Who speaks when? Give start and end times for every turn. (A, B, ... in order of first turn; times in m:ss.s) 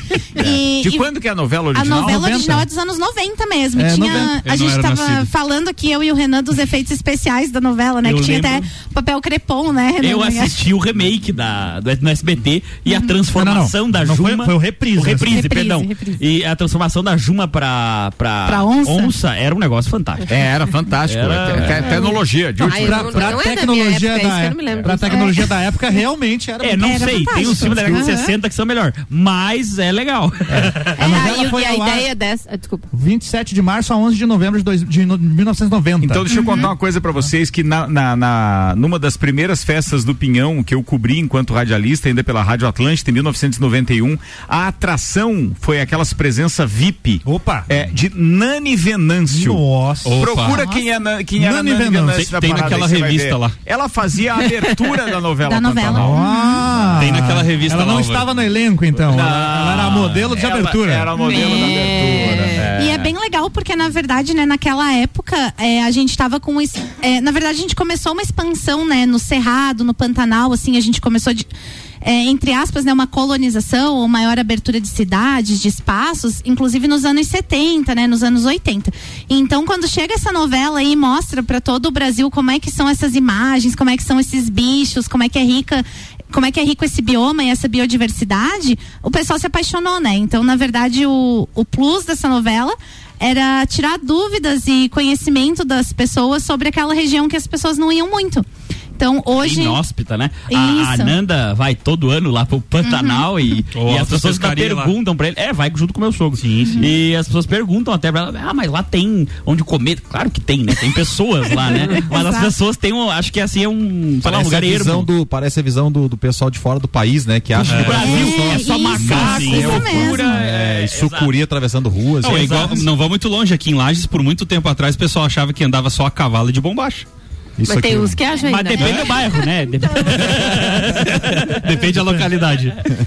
0:00.3-0:01.1 A
0:00.8-0:02.3 B
0:01.7-0:10.6 A
0:01.9-0:02.6 C
0:03.8-0:04.4 C
0:04.4-0:05.3 D
0:08.0-0:08.6 E
0:10.0-0:20.3 E
0:12.8-0:13.1 A
0:13.3-0:15.5 C
0:15.1-0:16.2 A
0:18.4-0:19.1 A
0:20.3-0:23.4 B
0:21.0-0:21.9 E
0:21.6-0:25.6 F
0:22.7-0:28.0 C
0:25.1-0:25.4 A
0:26.6-0:31.0 E
0:26.8-0:28.3 A
0:30.5-0:32.1 C
0:30.9-0:32.9 F
0:32.9-0:36.3 C
0:36.0-0:49.6 B
0:36.3-0:36.7 A
0:47.2-0:47.7 C
0:49.3-0:52.3 C
0:50.0-0:50.6 D
0:50.2-0:56.2 B
0:52.1-0:53.5 D
0:55.4-0:56.7 A
0:55.9-1:01.1 C
0:57.0-0:58.3 D
0:59.1-1:03.1 B
1:01.1-1:02.7 F
1:01.2-1:01.8 A
1:02.7-1:11.5 A
1:12.0-1:38.4 A
1:39.0-1:39.8 A
1:39.4-1:55.1 E
1:40.5-1:41.2 A
1:42.8-1:43.3 A
1:43.7-1:44.9 D
1:46.4-1:46.9 D
1:51.9-1:52.5 A
1:54.2-2:02.9 G
1:57.5-2:01.4 E
1:57.6-1:58.0 D
1:57.8-2:00.4 A
2:02.2-2:07.0 D
2:02.2-2:02.8 E
2:07.6-2:08.2 G
2:07.6-2:09.5 F
2:08.4-2:09.1 A
2:08.4-2:11.8 E
2:11.0-2:12.7 D
2:11.8-2:12.7 C